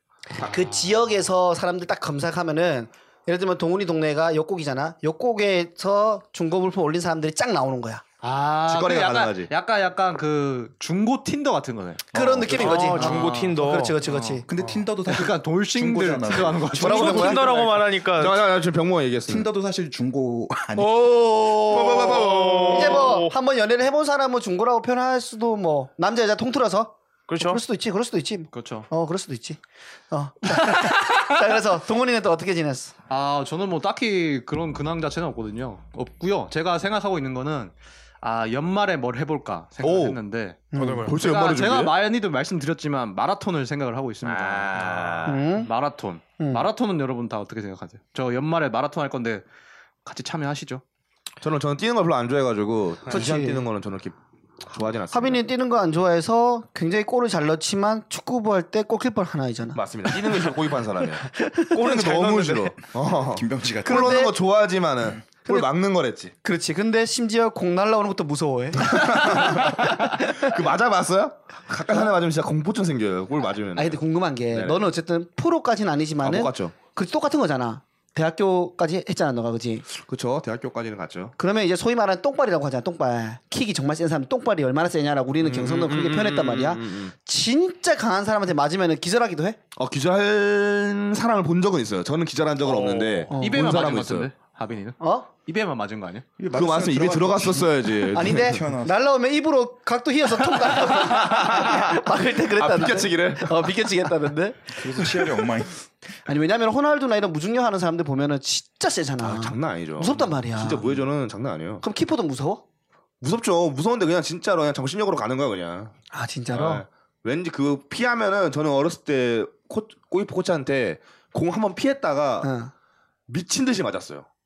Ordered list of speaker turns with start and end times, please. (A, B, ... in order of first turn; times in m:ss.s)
0:00.4-0:08.0 A
0:08.2-0:13.6 B
0:08.7-0:09.5 C
0:12.1-0:14.4 A
0:12.6-0:14.8 D
0:14.1-0:14.4 B
0:14.5-0:16.8 E
0:15.0-0:17.9 B
0:16.7-0:17.5 A
0:16.8-0:18.4 D
0:18.1-0:19.5 C
0:19.3-0:21.2 E
0:20.8-0:29.6 A
0:21.6-0:23.1 C
0:22.0-0:23.4 D
0:27.3-0:27.6 D
0:28.5-0:28.9 B
0:30.1-0:32.9 A
0:33.1-0:49.4 B
0:39.8-0:40.2 C
0:40.7-0:41.2 A
0:40.8-0:41.2 D
0:41.1-0:42.0 C
0:44.2-0:45.4 C
0:45.3-0:45.7 A
0:46.4-0:46.7 A
0:50.0-0:50.8 B
0:51.4-0:54.2 C
0:53.1-0:53.6 A
0:54.7-0:55.4 C
0:55.1-1:00.4 A
0:59.8-1:06.3 C
1:01.4-1:01.8 A
1:01.7-1:02.8 D
1:03.3-1:04.3 E
1:03.8-1:04.4 A
1:06.4-1:10.5 A
1:08.8-1:14.0 C
1:13.8-1:19.9 A
1:14.5-1:14.8 C
1:16.2-1:16.8 C
1:19.9-1:21.4 C
1:21.4-1:29.6 A
1:25.4-1:27.1 C
1:29.8-1:34.3 C
1:32.7-1:33.3 D
1:33.3-1:33.7 A
1:33.3-1:36.2 B
1:35.0-1:35.3 A
1:36.4-1:38.9 E
1:36.5-1:38.6 C
1:38.1-1:45.5 A
1:40.9-1:42.0 C
1:42.6-1:43.9 C
1:44.7-1:45.8 E
1:46.3-1:50.9 A
1:49.2-1:51.8 C
1:51.8-1:52.6 A
1:53.2-1:55.9 C
1:56.1-1:56.8 A
1:56.5-2:02.5 C
2:02.4-2:02.7 A
2:03.3-2:04.3 C